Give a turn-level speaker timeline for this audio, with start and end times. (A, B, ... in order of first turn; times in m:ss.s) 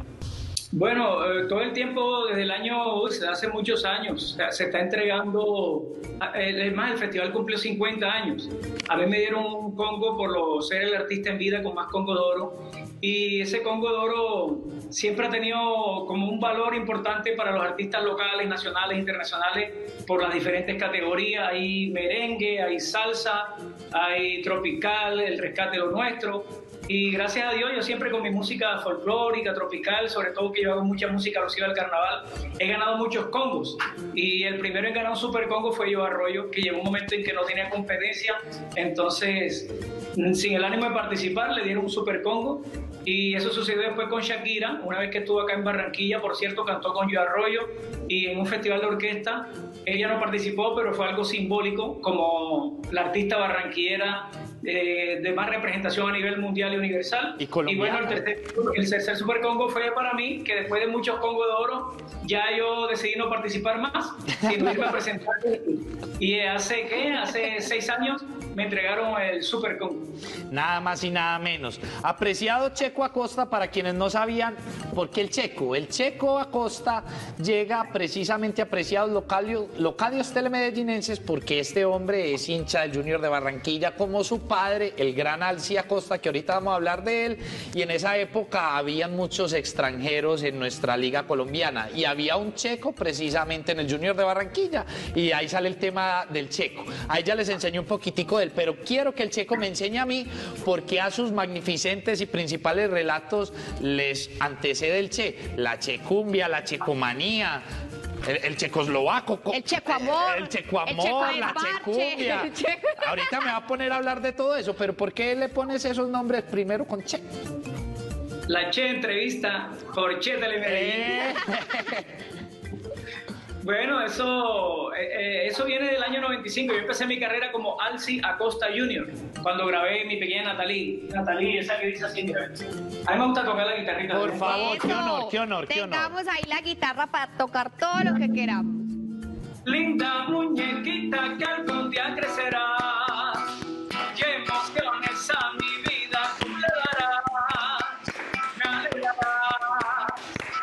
0:00.7-1:10.1 A
0:57.4-0:58.2 B
1:10.5-1:47.6 B
1:48.2-1:57.3 B
1:49.5-1:53.3 C
1:58.5-2:01.3 A
2:00.6-2:02.1 B
2:03.6-2:14.7 A
2:14.1-2:16.1 B
2:14.4-2:18.9 C
2:19.6-2:23.5 A
2:24.1-2:28.0 A
2:28.6-2:30.2 A